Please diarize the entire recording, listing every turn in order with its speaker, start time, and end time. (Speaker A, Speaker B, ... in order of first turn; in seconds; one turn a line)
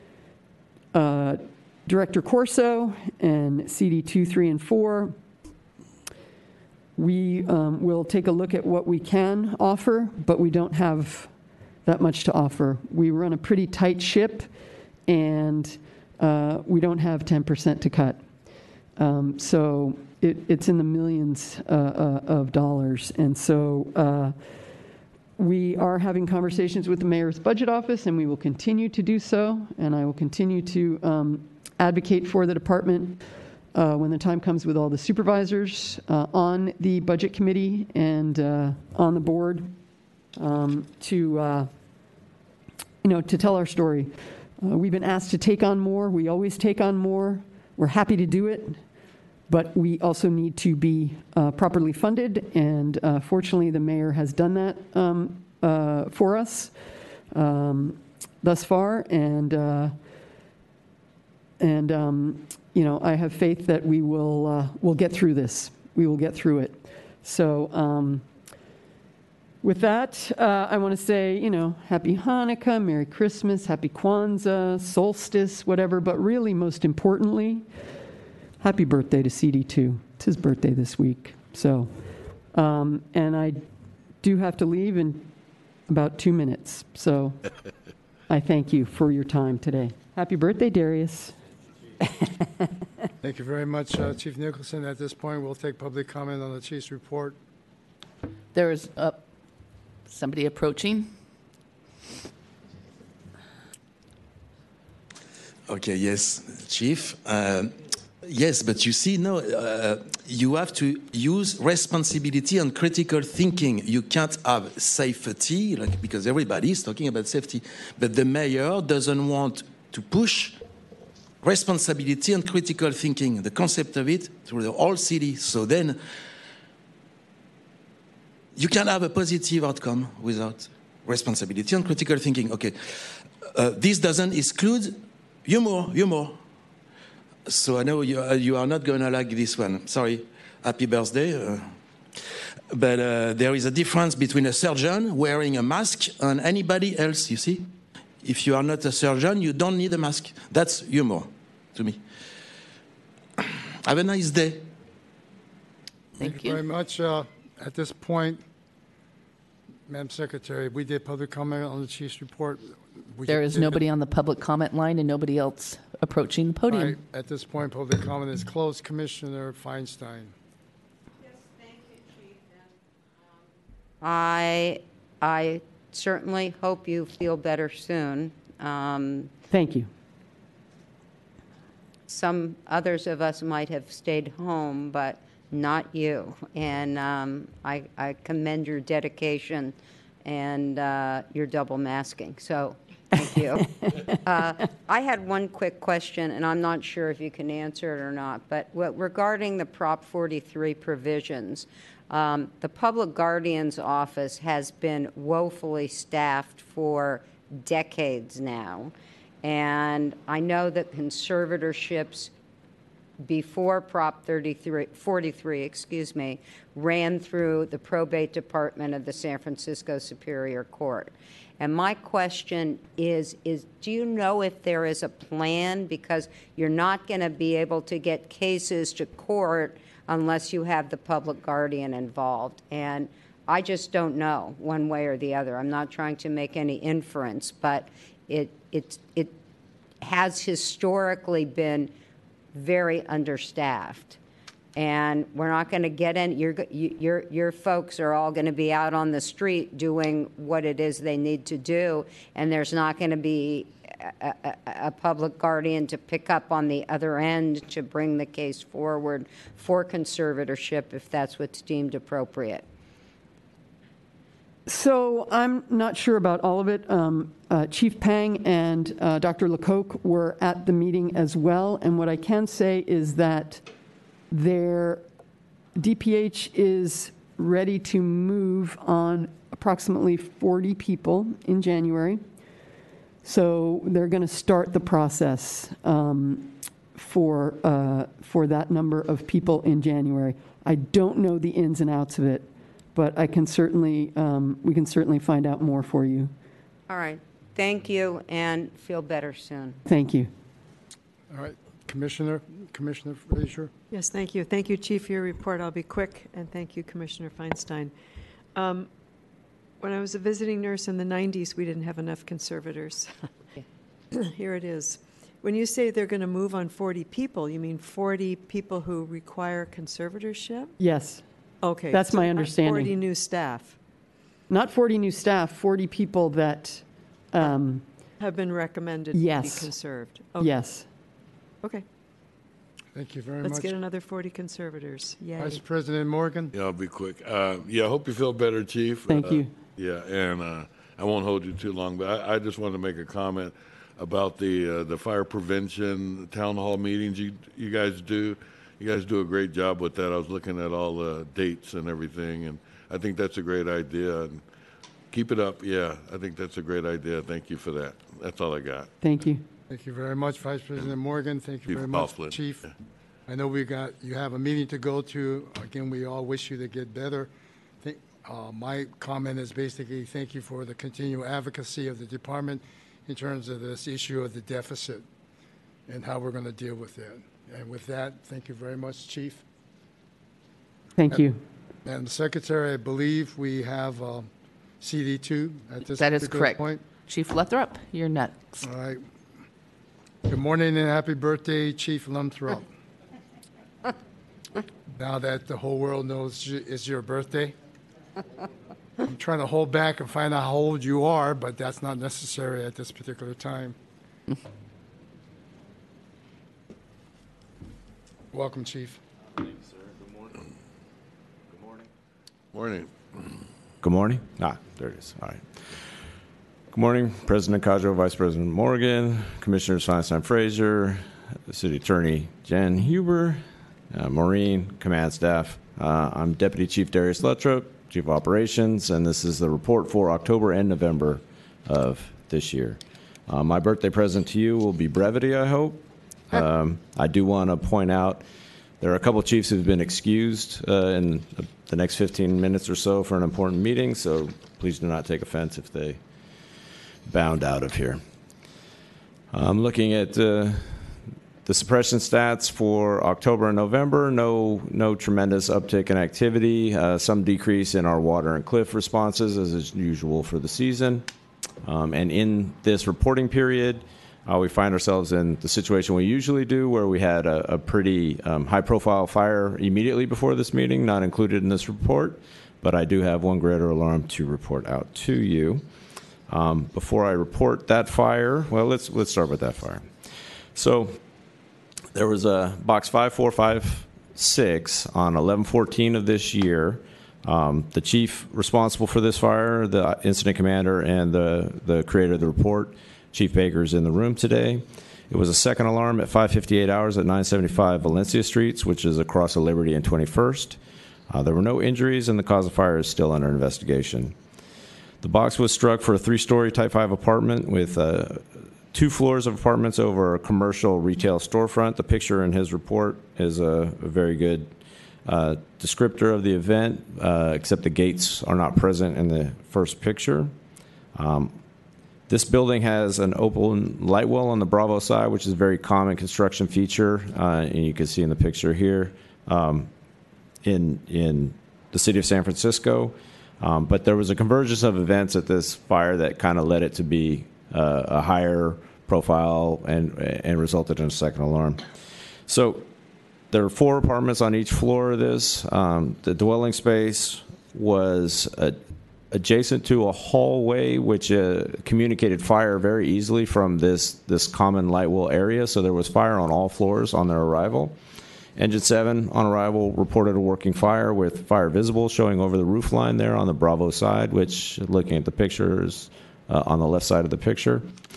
Speaker A: 0.9-5.2
Speaker A: 7.0-11.3
Speaker A: 11.8-14.5
Speaker A: 15.1-18.2
Speaker A: 19.0-24.4
Speaker A: 25.4-33.2
Speaker A: 33.7-39.8
Speaker A: 40.4-41.7
Speaker A: 43.0-48.8
Speaker A: 49.5-56.7
Speaker A: 57.3-59.9
Speaker A: 61.6-68.2
Speaker A: 69.6-77.7
Speaker A: 78.6-81.9
Speaker A: 82.5-83.6
Speaker A: 84.2-85.3
Speaker A: 85.9-87.4
Speaker A: 88.3-91.4
Speaker B: 93.2-97.4
Speaker C: 98.5-99.2
Speaker C: 100.1-101.1
Speaker D: 105.7-120.6
Speaker D: 121.4-126.0
Speaker D: 128.6-136.4
Speaker D: 137.5-141.7
Speaker D: 142.7-152.0
Speaker D: 153.4-154.7
Speaker C: 156.2-156.6
Speaker B: 156.2-158.4
Speaker B: 159.9-163.8
Speaker C: 163.3-167.0
Speaker B: 166.7-170.3
Speaker E: 174.0-179.3
Speaker A: 179.5-179.9
Speaker E: 182.1-212.3
Speaker E: 213.2-239.3
Speaker E: 240.0-241.9
Speaker E: 242.5-244.2
Speaker E: 244.8-262.7
Speaker A: 264.7-273.6
Speaker A: 274.3-275.0
Speaker A: 275.8-282.2
Speaker A: 283.2-296.3
Speaker E: 296.9-299.8
Speaker A: 299.9-300.3
Speaker B: 301.3-303.7
Speaker F: 303.9-307.9
Speaker F: 308.6-308.9
Speaker F: 309.8-313.1
Speaker F: 314.1-320.7
Speaker A: 320.8-321.2
Speaker F: 321.6-323.8
Speaker A: 321.9-322.9
Speaker A: 324.5-327.9
Speaker F: 328.2-330.6
Speaker A: 329.1-329.7
Speaker A: 330.4-330.9
Speaker B: 332.9-333.7
Speaker F: 333.4-335.6
Speaker B: 335.4-336.5
Speaker G: 336.5-354.4
Speaker A: 339.1-339.5
Speaker G: 355.1-358.9
Speaker A: 359.0-359.4
Speaker B: 359.7-362.6
Speaker G: 361.7-362.4
Speaker B: 363.3-367.3
Speaker B: 367.8-375.1
Speaker B: 375.9-379.4
Speaker A: 381.0-381.4
Speaker B: 381.9-384.3
Speaker B: 384.8-386.8
Speaker C: 385.9-388.7
Speaker B: 388.6-389.0
Speaker B: 390.3-392.6
Speaker B: 395.0-397.6
Speaker B: 399.0-403.8
Speaker B: 408.3-409.0
Speaker G: 412.5-413.3
Speaker H: 413.8-415.4
Speaker H: 416.7-435.8
Speaker H: 436.3-438.2
Speaker H: 438.8-446.0
Speaker H: 447.1-448.0
Speaker H: 449.3-461.1
Speaker H: 461.6-475.6
Speaker H: 476.3-479.9
Speaker H: 480.6-481.0
Speaker H: 481.9-500.6
Speaker H: 501.1-504.2
Speaker H: 505.0-514.5
Speaker H: 515.1-520.3
Speaker H: 521.0-521.4
Speaker H: 522.1-529.7
Speaker H: 530.4-541.6
Speaker H: 542.3-542.7
Speaker H: 543.3-548.6
Speaker H: 549.1-557.8
Speaker H: 558.4-567.7